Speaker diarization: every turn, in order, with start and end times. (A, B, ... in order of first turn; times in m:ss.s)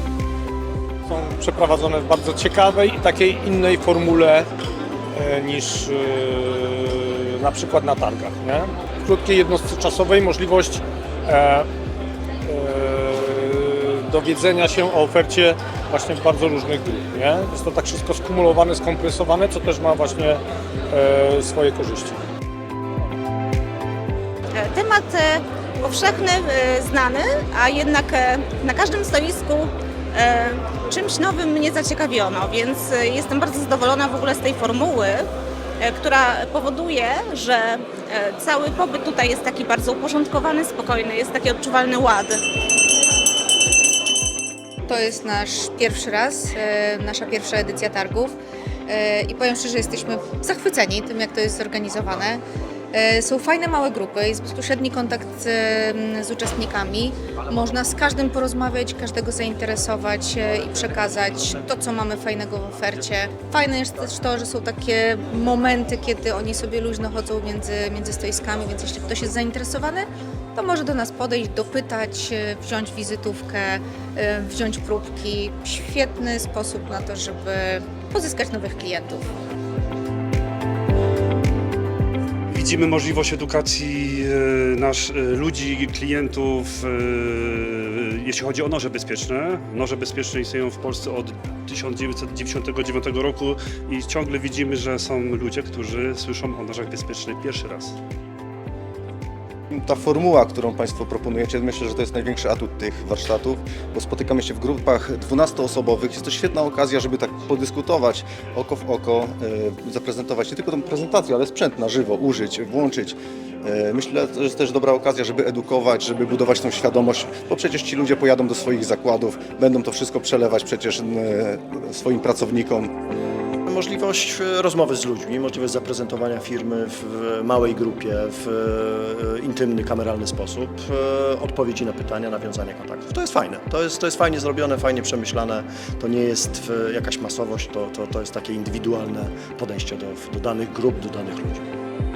0:01.1-0:04.4 A
0:05.2-0:11.7 A
0:12.5-0:20.4 A
0:20.9-0:22.2 A
0:24.6-0:35.3 B
0:35.8-0:42.4 B
0:44.9-0:48.3 C
0:48.9-0:52.4 C
0:52.9-1:19.3 C
1:22.5-1:38.0 D
1:39.7-2:02.9 E
2:03.7-2:21.7 F